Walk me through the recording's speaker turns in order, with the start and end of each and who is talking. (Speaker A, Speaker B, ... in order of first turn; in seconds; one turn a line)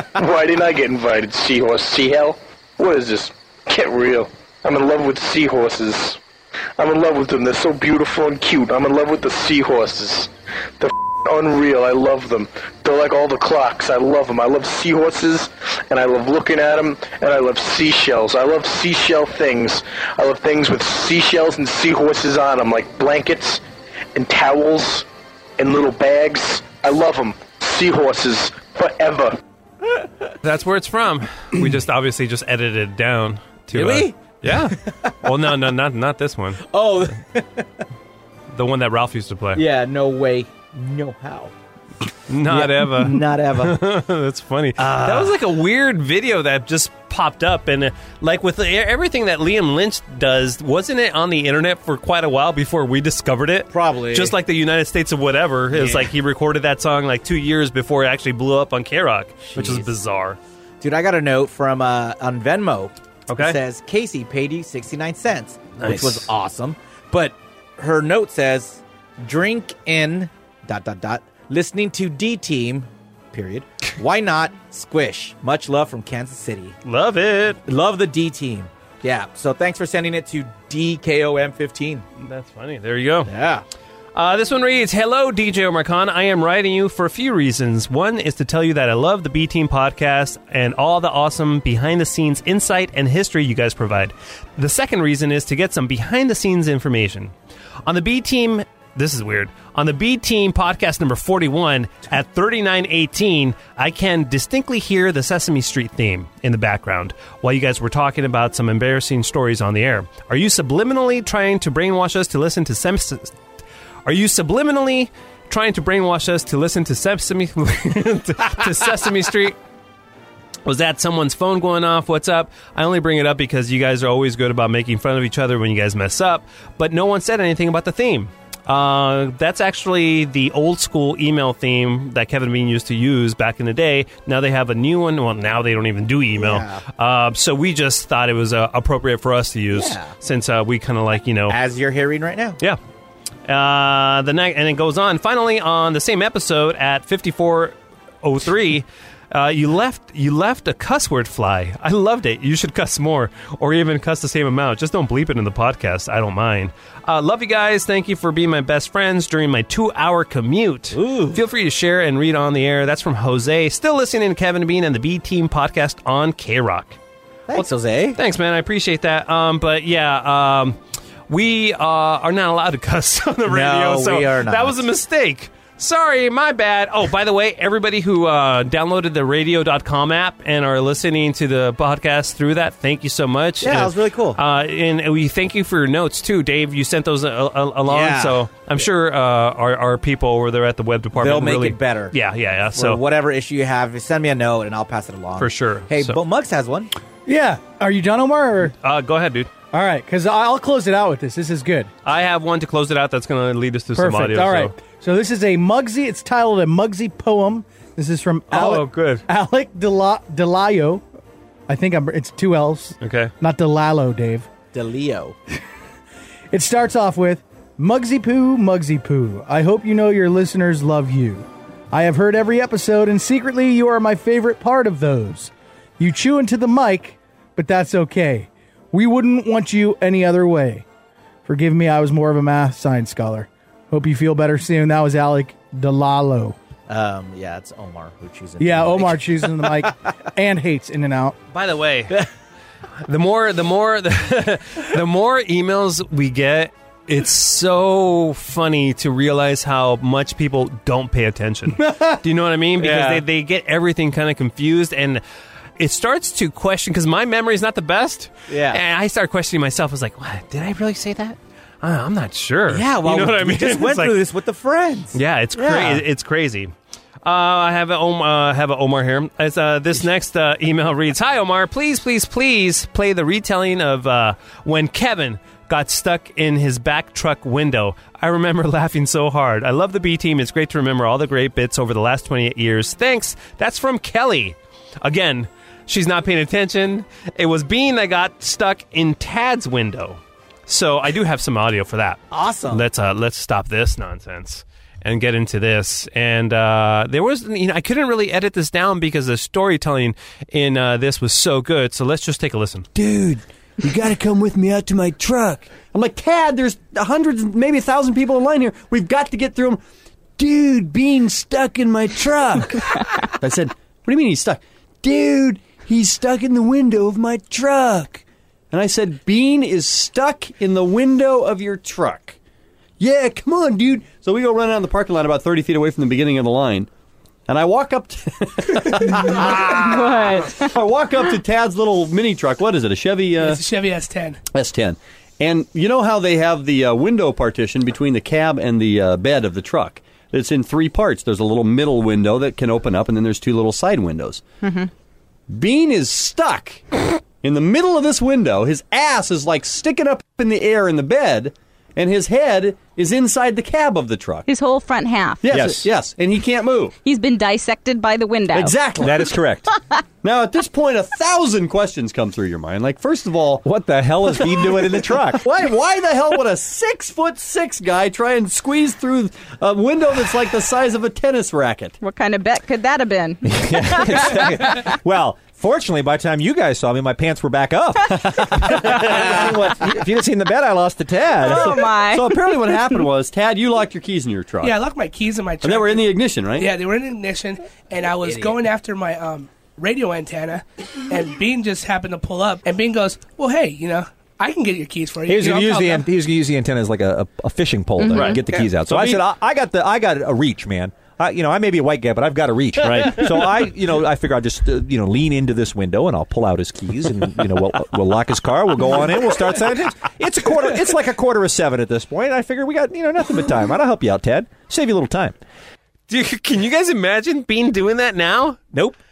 Speaker A: 0.2-6.2
Speaker A: 6.8-23.6
Speaker A: 24.1-25.1
Speaker A: 25.6-29.4
Speaker B: 30.4-36.6
Speaker C: 33.7-35.1
Speaker C: 36.7-37.7
Speaker B: 38.5-39.6
Speaker C: 39.5-41.5
Speaker B: 42.3-60.4
Speaker C: 42.5-43.8
Speaker C: 44.8-45.4
Speaker C: 53.7-54.3
Speaker C: 55.7-56.1
Speaker C: 59.5-59.9
Speaker C: 60.8-76.8
Speaker B: 63.3-63.6
Speaker B: 65.8-66.3
Speaker B: 76.8-77.6
Speaker C: 77.7-82.0
Speaker B: 82.2-83.3
Speaker C: 83.3-83.6
Speaker B: 84.2-97.3
Speaker B: 97.9-113.3
Speaker B: 114.0-119.6
Speaker B: 120.7-141.6
Speaker C: 136.3-136.8
Speaker C: 139.7-140.1
Speaker C: 141.5-142.6
Speaker B: 143.5-167.0
Speaker C: 160.9-161.4
Speaker C: 167.5-168.2
Speaker B: 168.2-170.8
Speaker B: 171.3-193.0
Speaker C: 173.5-174.9
Speaker C: 183.6-184.4
Speaker C: 187.9-188.5
Speaker C: 191.2-192.2
Speaker C: 192.7-196.9
Speaker B: 195.4-196.2
Speaker D: 197.3-198.8
Speaker B: 198.8-199.5
Speaker D: 199.7-201.9
Speaker B: 202.1-204.8
Speaker D: 204.0-211.0
Speaker B: 208.5-209.2
Speaker D: 211.7-214.5
Speaker B: 213.0-213.3
Speaker C: 214.7-215.4
Speaker D: 216.5-230.8
Speaker D: 231.5-236.6
Speaker C: 236.9-239.9
Speaker D: 238.6-241.4
Speaker B: 241.5-242.2
Speaker B: 243.1-255.2
Speaker C: 252.8-253.2
Speaker B: 255.8-264.2
Speaker C: 258.5-258.8
Speaker C: 262.7-266.1
Speaker B: 265.1-266.7
Speaker B: 267.2-302.9
Speaker C: 292.3-292.9
Speaker E: 302.9-309.8
Speaker E: 310.4-322.4
Speaker E: 323.0-326.9
Speaker E: 327.5-333.6
Speaker F: 329.1-330.7
Speaker G: 333.4-334.4
Speaker E: 334.5-344.4
Speaker F: 344.6-344.9
Speaker E: 345.5-346.8
Speaker E: 347.4-354.5
Speaker F: 354.5-355.5
Speaker E: 355.4-356.9
Speaker H: 355.5-355.9
Speaker F: 357.0-358.8
Speaker E: 358.5-359.3
Speaker H: 359.0-359.7
Speaker E: 360.2-363.6
Speaker H: 363.6-365.4
Speaker E: 365.4-372.0
Speaker F: 372.0-374.8
Speaker H: 373.4-381.9
Speaker F: 381.4-383.0
Speaker E: 381.4-384.8
Speaker G: 384.6-396.1
Speaker E: 385.6-386.7
Speaker H: 395.3-415.4
Speaker F: 398.0-398.4
Speaker E: 398.9-399.2
Speaker E: 402.8-403.3
Speaker B: 416.1-418.8